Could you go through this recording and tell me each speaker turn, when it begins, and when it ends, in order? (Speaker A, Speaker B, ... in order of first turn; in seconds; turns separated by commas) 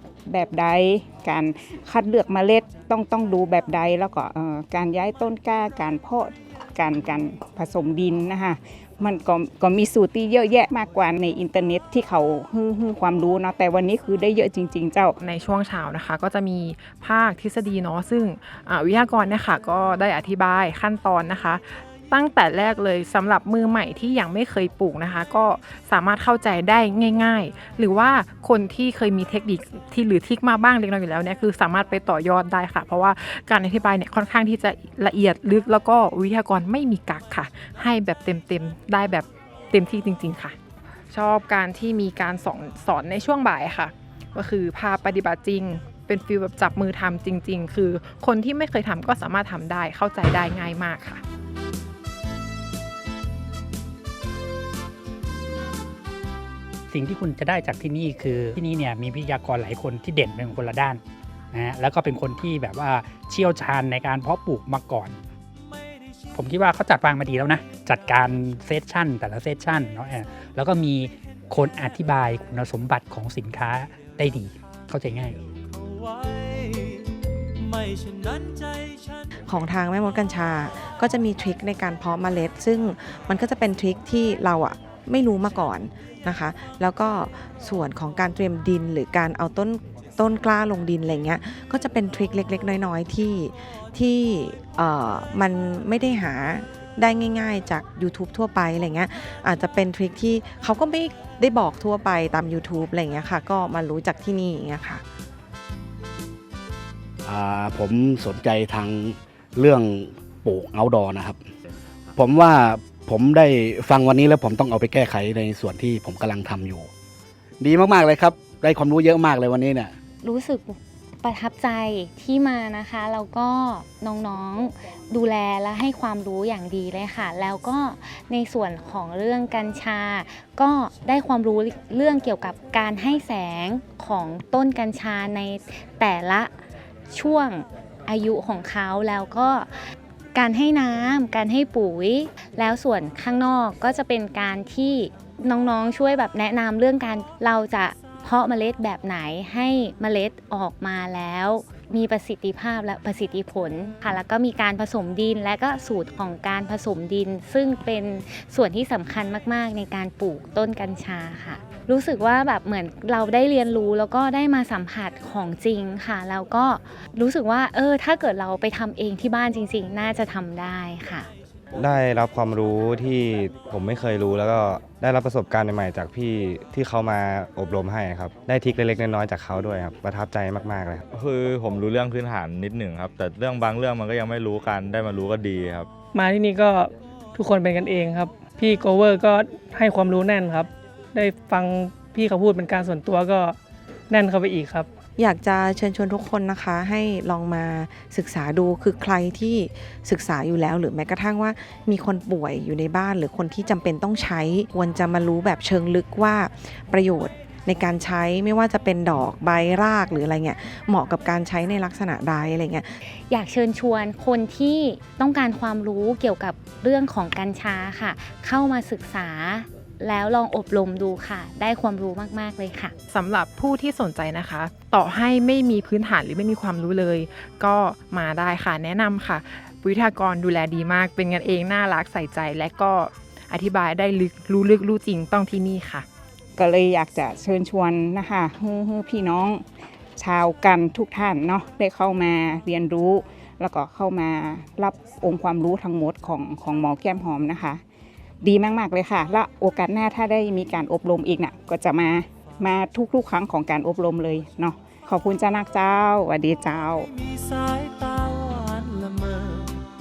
Speaker A: 0.2-15.2, Speaker B: 15.2-40.5, Speaker B: 41.1-51.2, Speaker C: 56.9-65.2, Speaker C: 66.3-75.4, Speaker D: 75.7-79.3, Speaker E: 79.5-105.0, Speaker F: 107.2-111.4, Speaker F: 112.2-116.9, Speaker F: 117.6-119.9, Speaker G: 120.2-136.5, Speaker G: 137.1-139.8, Speaker G: 140.3-171.3, Speaker H: 171.7-181.2, Speaker I: 181.2-185.8, Speaker J: 186.1-193.6, Speaker J: 194.1-194.9, Speaker E: 195.2-213.0, Speaker G: 213.3-222.9, Speaker B: 223.1-236.0, Speaker A: 236.6-239.6, Speaker A: 240.2-247.8, Speaker A: 248.4-257.1, Speaker D: 257.0-259.8